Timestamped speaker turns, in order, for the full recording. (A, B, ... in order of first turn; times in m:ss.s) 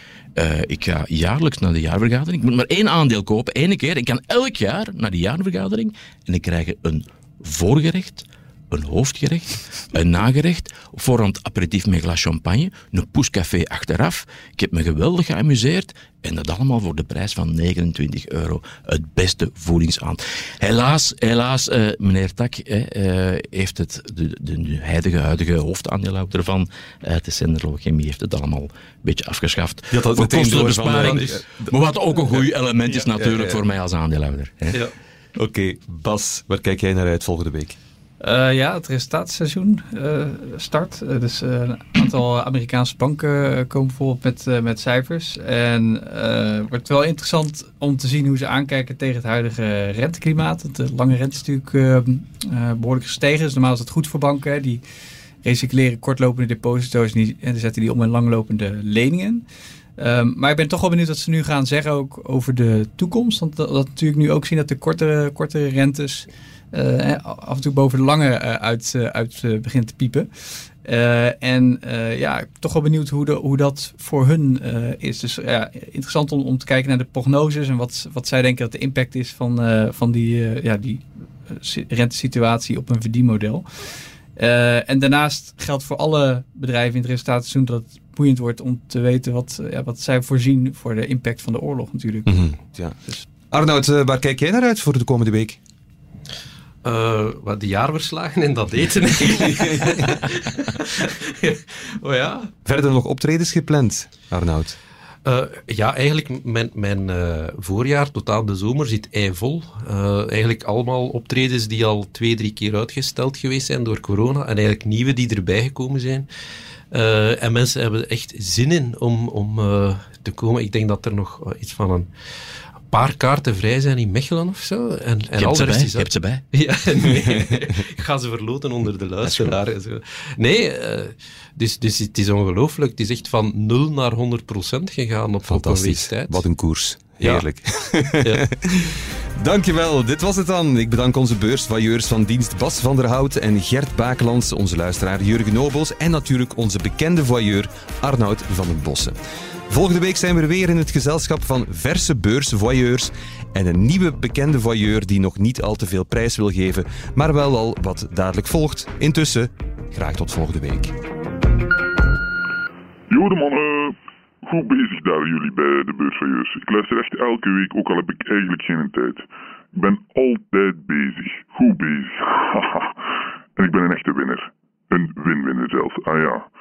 0:00.4-0:34.8 A
0:29.9-0:31.7 B
0:33.2-0:33.6 B
0:35.4-0:37.8 B
0:38.2-0:54.8 C
0:55.4-0:59.4 C
1:00.0-1:10.3 C
1:10.8-1:32.5 C
1:32.2-1:33.0 B
1:33.5-1:35.6 B
1:36.8-1:42.5 D
1:39.4-1:40.0 B
1:42.6-1:44.8 B
1:45.2-1:56.3 D
1:56.9-2:02.1 D
2:02.9-2:16.4 D
2:05.4-2:06.4 A
2:09.2-2:09.5 A
2:15.4-2:29.2 B
2:17.0-2:17.4 D
2:29.7-2:40.9 B
2:43.1-2:53.0 E
2:53.6-2:56.5 E